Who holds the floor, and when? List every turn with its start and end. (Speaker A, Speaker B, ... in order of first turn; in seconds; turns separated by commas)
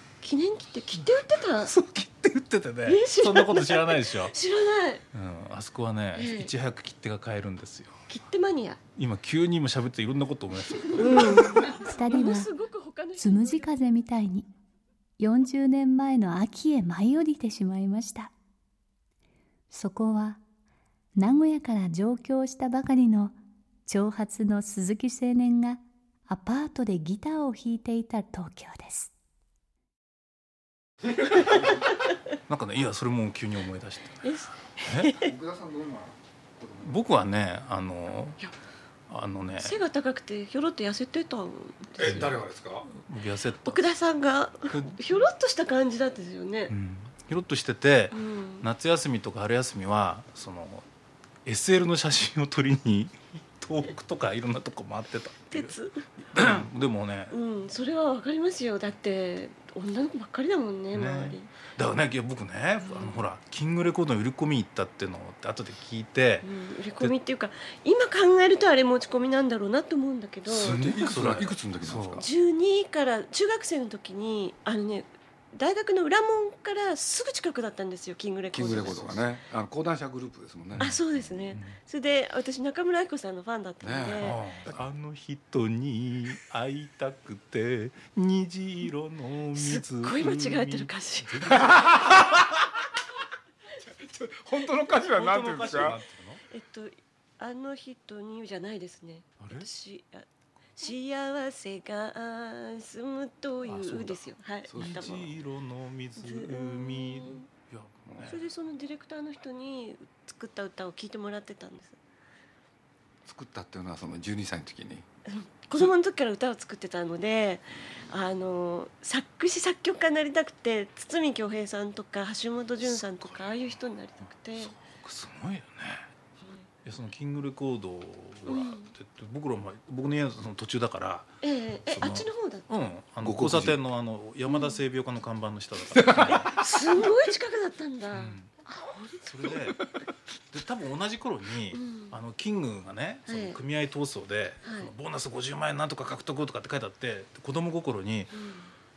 Speaker A: 0.2-1.7, Speaker B: 0.9-4.3, Speaker A: 2.8-5.0, Speaker B: 5.1-8.0, Speaker A: 6.1-6.5, Speaker A: 8.1-8.8, Speaker B: 8.9-11.8, Speaker A: 11.0-13.9, Speaker C: 11.8-12.5, Speaker C: 13.2-14.5, Speaker C: 15.2-18.3, Speaker C: 19.7-20.4, Speaker C: 21.2-29.1, Speaker B: 32.5-34.3, Speaker A: 34.2-35.3, Speaker B: 34.8-35.1, Speaker D: 35.2-37.0, Speaker B: 36.8-38.4, Speaker B: 39.1-39.8, Speaker A: 39.6-42.4, Speaker D: 42.0-42.9, Speaker B: 42.0-42.4, Speaker B: 42.9-43.9, Speaker A: 43.6-46.7, Speaker B: 44.7-45.3, Speaker B: 46.7-50.9, Speaker A: 48.1-48.7, Speaker B: 51.4-55.8, Speaker A: 55.5-56.1, Speaker B: 56.3-57.4, Speaker A: 57.3-61.5, Speaker B: 60.9-67.1, Speaker A: 62.8-63.3, Speaker A: 66.4-70.8, Speaker D: 70.5-72.2, Speaker B: 70.5-72.2, Speaker A: 72.2-79.3, Speaker D: 78.5-81.0, Speaker B: 80.7-81.8, Speaker A: 80.8-84.4, Speaker D: 83.8-84.8, Speaker B: 84.2-92.4, Speaker A: 89.5-91.7, Speaker D: 91.6-92.0, Speaker D: 93.8-96.0, Speaker B: 94.8-96.4, Speaker A: 96.5-105.3, Speaker B: 99.4-99.7, Speaker B: 103.6-108.4, Speaker D: 104.7-105.3, Speaker A: 106.2-107.5, Speaker D: 108.1-108.3, Speaker A: 108.2-112.0, Speaker D: 113.2-115.0, Speaker A: 115.3-124.7, Speaker B: 123.2-123.5, Speaker B: 124.6-126.1, Speaker A: 126.4-126.7, Speaker B: 126.8-131.3, Speaker A: 128.4-128.9, Speaker A: 131.4-132.8, Speaker B: 131.9-136.6, Speaker D: 133.2-133.8, Speaker A: 134.5-134.8, Speaker D: 135.9-136.7, Speaker A: 136.5-139.6, Speaker B: 138.1-138.6, Speaker B: 139.2-139.9, Speaker B: 140.5-148.3, Speaker A: 141.7-142.1, Speaker A: 143.3-143.6, Speaker A: 144.6-144.9, Speaker A: 148.3-148.7